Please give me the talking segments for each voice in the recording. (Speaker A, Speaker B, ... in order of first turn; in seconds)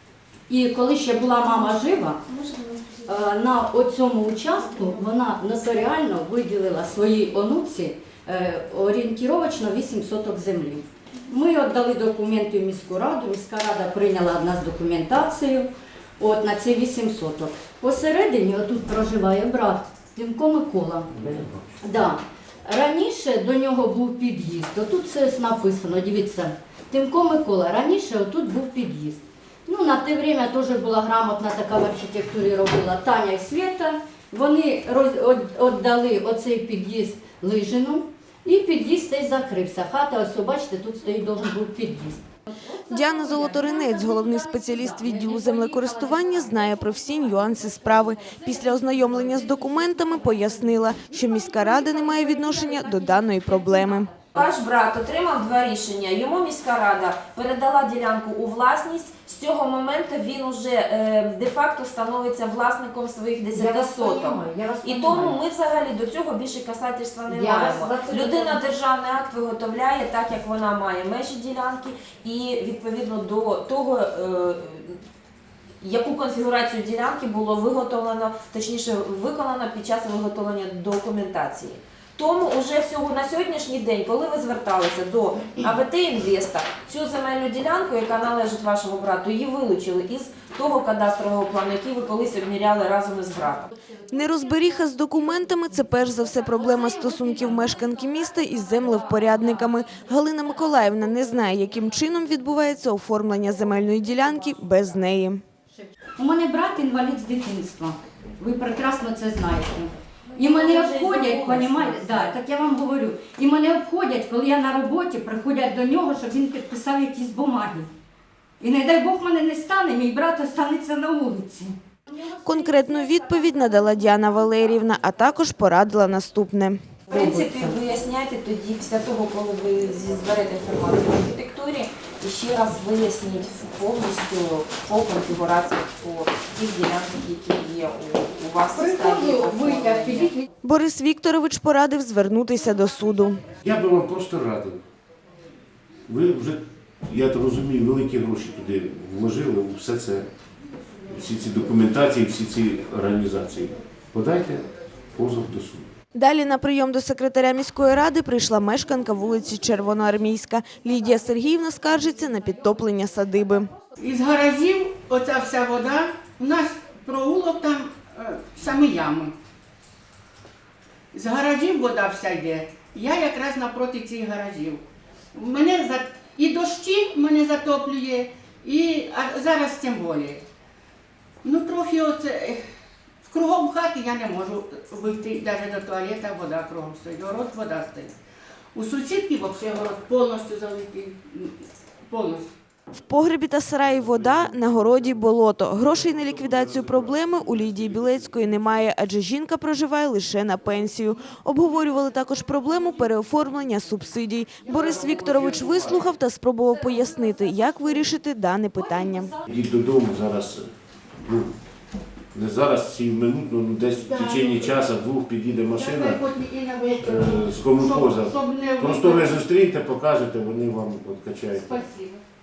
Speaker A: 0.5-2.2, 3.0-21.1, 21.8-42.2, 43.5-46.9, 63.5-65.3, 67.3-68.5, 106.2-117.9, 118.6-121.8, 127.1-127.8, 138.7-140.4
Speaker B: 2.3-3.2, 54.2-75.0, 75.8-93.7, 110.3-112.2, 127.1-140.4
Speaker C: 21.2-21.5, 143.6-144.8, 146.1-150.3, 151.1-155.9, 196.4-197.0, 204.7-206.0, 209.4-210.7, 211.2-211.5, 212.3-216.2, 217.0-221.8
Speaker D: 42.9-54.1, 94.1-105.4, 122.4-127.0, 140.6-143.5, 156.1-163.7, 192.9-209.3
Speaker E: 164.0-169.3, 171.1-174.8, 175.3-180.4, 181.4-182.6, 183.2-188.1, 188.7-191.5, 192.1-192.5, 214.0-214.8, 215.7-219.4, 221.5-222.2